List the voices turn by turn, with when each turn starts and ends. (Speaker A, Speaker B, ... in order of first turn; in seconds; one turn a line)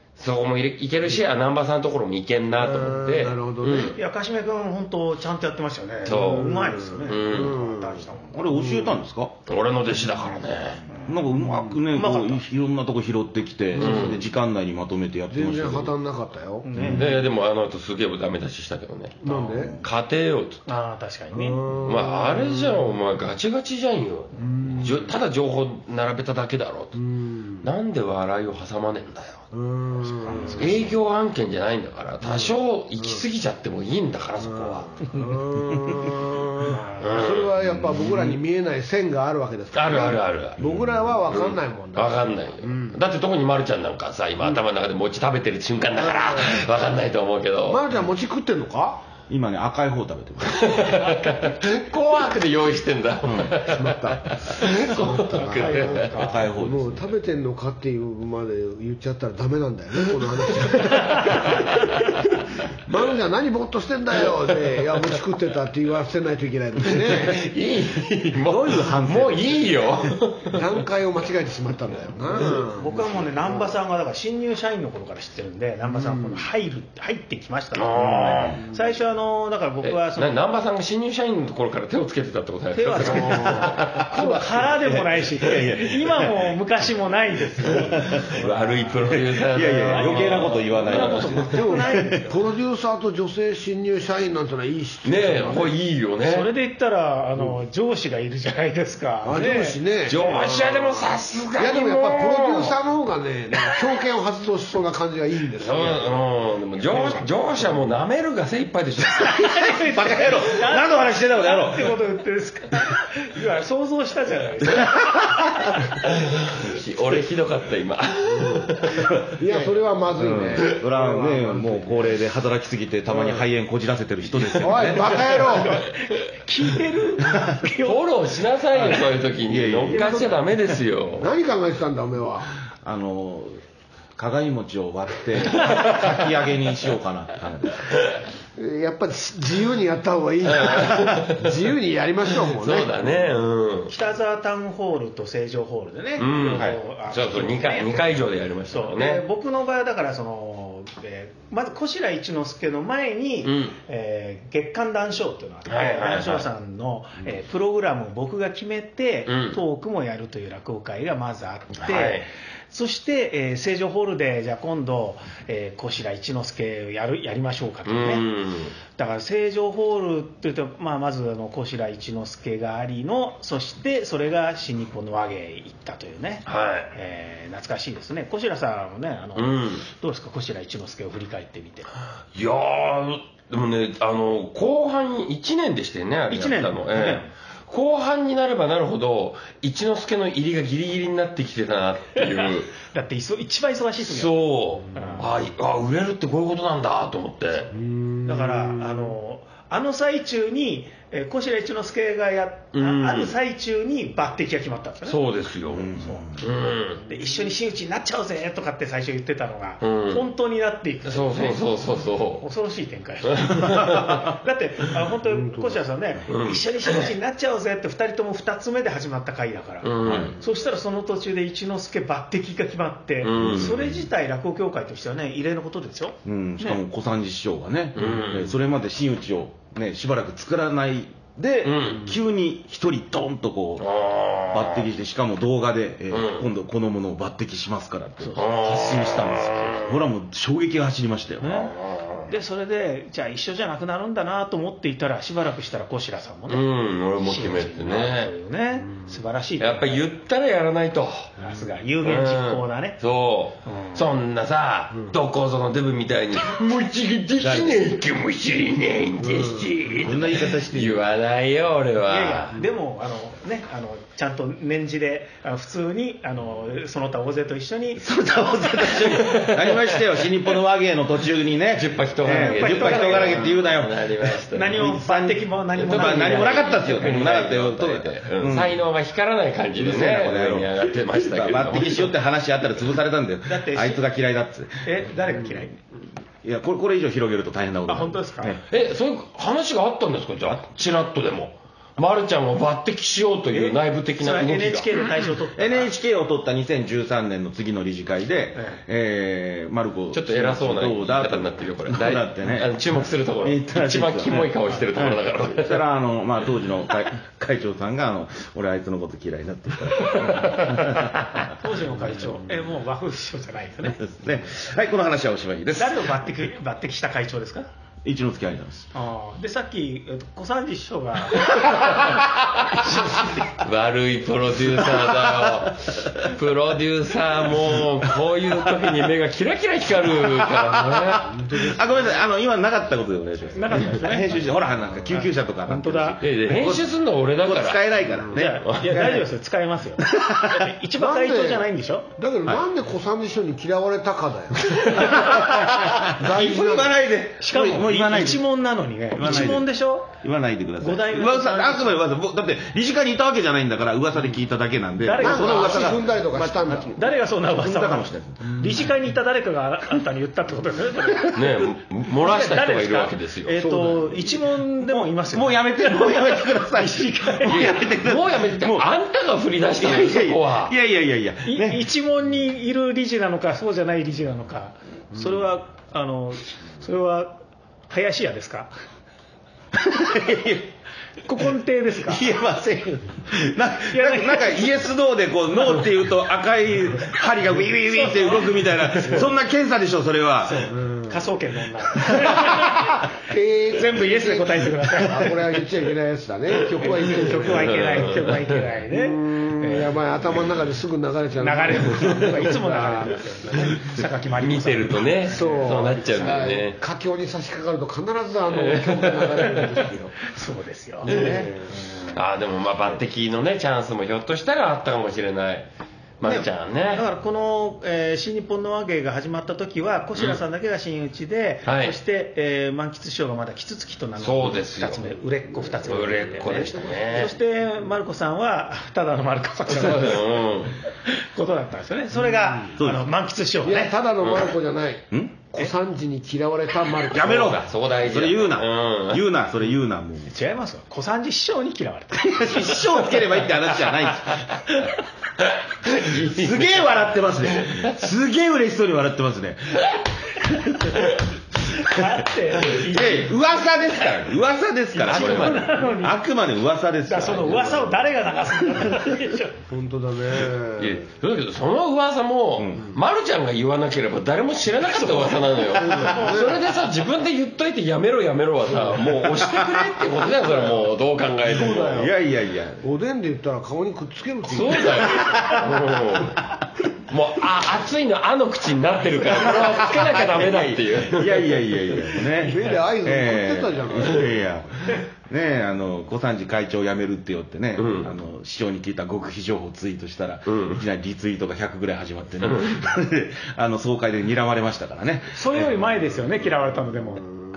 Speaker A: 0.1-4.0
Speaker B: 2.6-4.0
Speaker C: 3.9-8.4
Speaker B: 6.0-9.0
Speaker A: 6.0-6.5
Speaker A: 7.0-7.5
Speaker D: 8.3-9.3
Speaker A: 9.5-10.8
Speaker D: 11.1-15.9
Speaker B: 11.3-11.8
Speaker C: 11.9-12.4
Speaker B: 13.8-14.1
Speaker A: 13.8-14.2
Speaker B: 15.3-17.1
Speaker C: 16.6-17.2
Speaker D: 16.8-17.1
Speaker A: 16.9-20.6
Speaker B: 19.2-19.8
Speaker D: 19.5-19.8
Speaker C: 20.6-21.6
Speaker B: 21.3-22.9
Speaker A: 21.8-27.0
Speaker B: 24.3-25.1
Speaker B: 26.9-27.7
Speaker A: 27.6-29.5
Speaker B: 29.5-30.8
Speaker C: 30.1-30.9
Speaker A: 30.6-34.9
Speaker B: 32.2-33.2
Speaker B: 34.5-43.0
Speaker C: 36.6-37.2
Speaker A: 37.0-37.6
Speaker D: 37.6-38.3
Speaker A: 39.7-40.6
Speaker D: 40.6-41.2
Speaker A: 41.3-47.8
Speaker B: 46.0-46.7
Speaker B: 47.7-49.0
Speaker D: 49.3-51.1
Speaker A: 50.4-56.1
Speaker D: 53.2-53.6
Speaker B: 53.7-61.7
Speaker C: 55.3-56.5
Speaker D: 56.1-57.1
Speaker A: 60.6-62.1
Speaker B: 62.9-67.4
Speaker A: 66.9-70.7
Speaker D: 68.5-69.6
Speaker B: 70.5-73.7
Speaker C: 72.4-80.3
Speaker B: 75.9-76.5
Speaker A: 77.7-78.6
Speaker A: 79.8-84.7
Speaker C: 82.7-89.0
Speaker B: 83.2-83.6
Speaker D: 84.8-86.5
Speaker D: 87.7-88.3
Speaker A: 88.2-91.4
Speaker D: 89.0-92.2
Speaker C: 89.8-92.4
Speaker B: 91.4-95.7
Speaker A: 95.0-96.5
Speaker C: 96.2-100.5
Speaker B: 99.2-101.0
Speaker A: 100.1-102.7
Speaker B: 101.6-106.2
Speaker A: 105.6-109.5
Speaker C: 109.2-115.3
Speaker D: 109.5-111.9
Speaker D: 114.8-115.4
Speaker A: 116.0-119.2
Speaker B: 118.3-118.8
Speaker D: 119.1-125.3
Speaker B: 119.3-122.2
Speaker B: 123.1-123.4
Speaker B: 124.6-125.8
Speaker A: 124.6-125.8
Speaker C: 125.3-128.1
Speaker D: 127.2-127.5
Speaker A: 127.8-131.3
Speaker D: 129.4-130.3
Speaker B: 129.9-130.3
Speaker C: 130.0-130.2
Speaker B: 131.2-132.5
Speaker D: 132.8-133.6
Speaker D: 134.2-137.9
Speaker A: 137.9-138.2
Speaker B: 138.6-143.0
Speaker A: 140.4-141.5
Speaker A: 142.3-143.9
Speaker C: 143.9-168.2
Speaker A: 146.2-149.2
Speaker A: 153.4-153.7
Speaker A: 155.7-156.4
Speaker A: 159.3-159.6
Speaker A: 161.8-162.2
Speaker A: 167.8-168.7
Speaker C: 168.9-181.9
Speaker A: 176.4-176.9
Speaker A: 179.3-179.8
Speaker A: 182.3-192.7
Speaker C: 186.3-187.3
Speaker C: 192.3-195.3
Speaker A: 194.0-197.7
Speaker B: 197.7-199.1
Speaker C: 198.2-205.2
Speaker A: 202.7-203.3
Speaker A: 205.1-207.0
Speaker D: 205.7-206.4
Speaker C: 206.0-206.3
Speaker C: 207.0-211.6
Speaker A: 209.8-210.2
Speaker A: 211.0-212.4
Speaker C: 212.4-226.8
Speaker A: 213.3-214.2
Speaker B: 215.3-215.8
Speaker A: 216.3-217.1
Speaker A: 219.8-220.3
Speaker D: 220.0-220.4
Speaker A: 223.2-223.8
Speaker D: 223.4-224.0
Speaker D: 226.2-233.9
Speaker A: 227.9-228.5
Speaker A: 231.6-232.1
Speaker A: 233.8-234.8
Speaker D: 234.5-241.7
Speaker A: 236.1-236.4
Speaker A: 238.3-240.0
Speaker C: 241.4-241.7
Speaker A: 241.6-242.3
Speaker C: 242.3-250.0
Speaker A: 246.5-248.3
Speaker A: 249.6-251.3
Speaker C: 251.4-253.0
Speaker A: 252.0-262.5
Speaker C: 253.6-254.1
Speaker D: 257.4-257.8
Speaker B: 259.2-259.7
Speaker D: 260.0-261.0
Speaker C: 262.1-268.2
Speaker D: 268.0-278.8
Speaker A: 269.1-270.0
Speaker A: 271.7-274.9
Speaker C: 272.2-273.6
Speaker C: 274.5-277.2
Speaker A: 275.8-282.1
Speaker D: 279.7-284.9
Speaker C: 283.5-284.0
Speaker C: 284.8-285.8
Speaker D: 286.4-288.6
Speaker C: 287.9-288.6
Speaker A: 288.7-295.0
Speaker C: 293.5-295.9
Speaker D: 295.6-311.5
Speaker C: 298.6-298.8
Speaker A: 300.1-305.8
Speaker C: 310.4-314.0
Speaker D: 313.9-316.1
Speaker C: 315.8-317.7
Speaker D: 318.0-318.9
Speaker C: 318.9-322.2
Speaker A: 321.4-331.3
Speaker C: 323.0-323.3
Speaker D: 324.9-326.2
Speaker D: 330.2-339.2
Speaker B: 331.2-332.0
Speaker C: 333.5-336.2
Speaker A: 336.2-337.8
Speaker C: 338.3-342.1
Speaker A: 338.4-338.9
Speaker D: 340.0-340.7
Speaker B: 340.9-346.9
Speaker D: 344.9-348.4
Speaker C: 347.4-350.2
Speaker D: 349.1-349.7
Speaker D: 350.2-358.6
Speaker C: 350.8-352.0
Speaker C: 355.0-356.0
Speaker B: 355.2-356.9
Speaker C: 356.9-367.7
Speaker A: 361.3-363.6
Speaker B: 363.6-364.3
Speaker D: 364.8-368.9
Speaker A: 367.4-370.7
Speaker D: 369.8-371.8
Speaker C: 371.4-377.4
Speaker C: 377.9-378.7
Speaker D: 379.8-380.7
Speaker C: 381.2-382.3
Speaker D: 382.0-390.7
Speaker C: 383.9-384.7
Speaker C: 387.9-389.3
Speaker C: 390.4-393.1
Speaker B: 390.7-391.2
Speaker D: 392.0-392.9
Speaker B: 393.2-398.1
Speaker C: 393.7-395.6
Speaker C: 396.6-400.1
Speaker A: 397.4-398.6
Speaker B: 398.9-403.2
Speaker C: 401.4-405.6
Speaker A: 404.4-406.8
Speaker B: 405.3-410.2
Speaker A: 408.5-409.6
Speaker C: 410.2-412.1
Speaker B: 411.0-411.7
Speaker A: 411.1-411.4
Speaker A: 412.1-415.7
Speaker A: 416.2-417.0
Speaker C: 416.9-430.3
Speaker A: 421.6-421.9
Speaker A: 424.2-425.1
Speaker A: 425.8-427.3
Speaker B: 426.1-427.2
Speaker A: 429.7-430.8
Speaker C: 431.0-433.9
Speaker D: 432.8-433.1
Speaker B: 433.6-437.6
Speaker A: 434.2-434.5
Speaker D: 435.1-435.4
Speaker D: 437.1-440.3
Speaker A: 437.2-439.2
Speaker C: 440.3-444.0
Speaker D: 442.2-444.6
Speaker A: 445.4-446.9
Speaker D: 446.1-451.0
Speaker C: 451.7-453.7
Speaker D: 452.7-458.0
Speaker C: 455.0-456.2
Speaker A: 455.0-455.9
Speaker C: 457.1-459.6
Speaker B: 459.7-461.1
Speaker A: 460.8-472.1
Speaker D: 462.6-462.9
Speaker C: 464.9-466.7
Speaker B: 465.7-466.6
Speaker B: 471.4-472.1
Speaker D: 471.8-472.8
Speaker B: 472.8-475.2
Speaker A: 474.5-476.4
Speaker D: 475.2-475.7
Speaker A: 477.1-481.6
Speaker D: 479.6-495.9
Speaker B: 482.3-484.4
Speaker A: 487.8-488.1
Speaker A: 490.4-490.8
Speaker A: 492.4-492.8
Speaker C: 495.3-497.4